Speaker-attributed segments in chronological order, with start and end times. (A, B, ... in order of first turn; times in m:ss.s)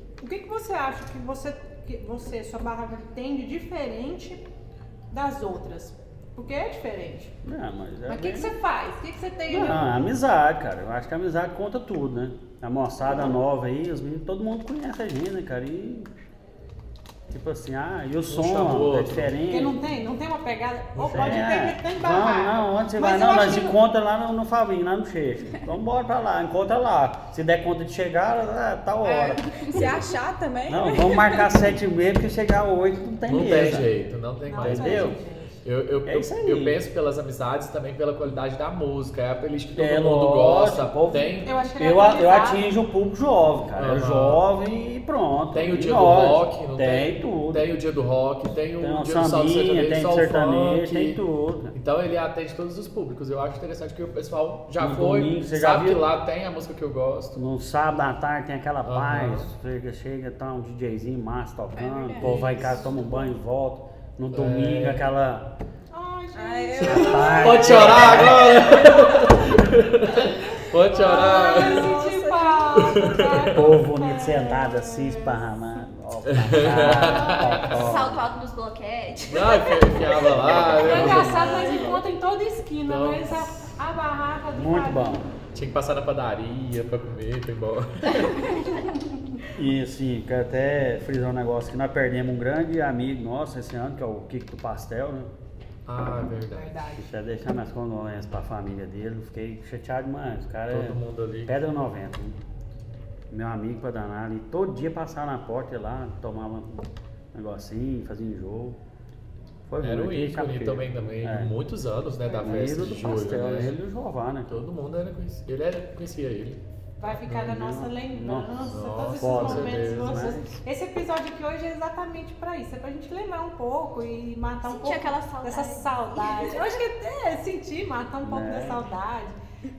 0:00.2-0:04.4 A
0:05.1-0:07.3 A
0:07.4-0:08.5 B
0:08.1-0:10.0 A
0:09.5-0:16.1 B
0:17.3-0:19.8 B
0:18.3-0:19.3 C
0:19.5-0:23.8 A
0:21.0-0:21.4 C
0:21.1-0:30.0 B
0:29.6-0:31.4 D
0:30.7-0:33.9 B
0:33.3-0:41.6 C
0:34.5-0:35.6 A
0:34.6-0:35.2 B
0:36.0-0:36.8 B
0:39.7-0:47.7 B
0:41.1-0:42.7 A
0:43.8-0:44.4 C
0:45.5-0:51.2 C
0:48.8-0:51.7 B
0:51.7-0:57.3 C
0:54.8-0:56.1 B
0:57.3-1:05.5 B
0:58.8-0:59.5 C
1:01.8-1:02.5 E
1:01.9-1:02.2 D
1:02.2-1:03.0 C
1:04.3-1:05.1 C
1:05.9-1:09.5 A
1:06.3-1:07.7 D
1:06.8-1:08.8 B
1:06.9-1:11.9 C
1:10.3-1:15.4 A
1:11.1-1:13.0 D
1:12.8-1:13.7 C
1:13.5-1:18.3 B
1:16.2-1:17.9 C
1:16.8-1:17.7 A
1:17.7-1:21.9 E
1:19.3-1:21.4 C
1:20.3-1:21.6 B
1:20.7-1:25.2 A
1:21.2-1:22.0 D
1:22.9-1:23.7 C
1:24.5-1:25.3 B
1:25.5-1:28.6 C
1:29.5-1:35.3 B
1:35.9-1:36.7 C
1:36.5-1:37.1 A
1:37.0-1:42.4 B
1:40.7-1:41.6 C
1:43.3-1:48.8 B
1:49.7-1:51.5 B
1:49.8-1:53.8 C
1:52.2-1:52.8 A
1:52.4-1:54.6 B
1:54.5-1:56.6 C
1:57.0-2:09.4 A
1:57.3-1:57.5 C
1:57.4-1:58.6 B
1:58.7-2:00.4 C
1:59.2-2:00.5 B
2:04.6-2:06.6 E
2:08.2-2:08.9 B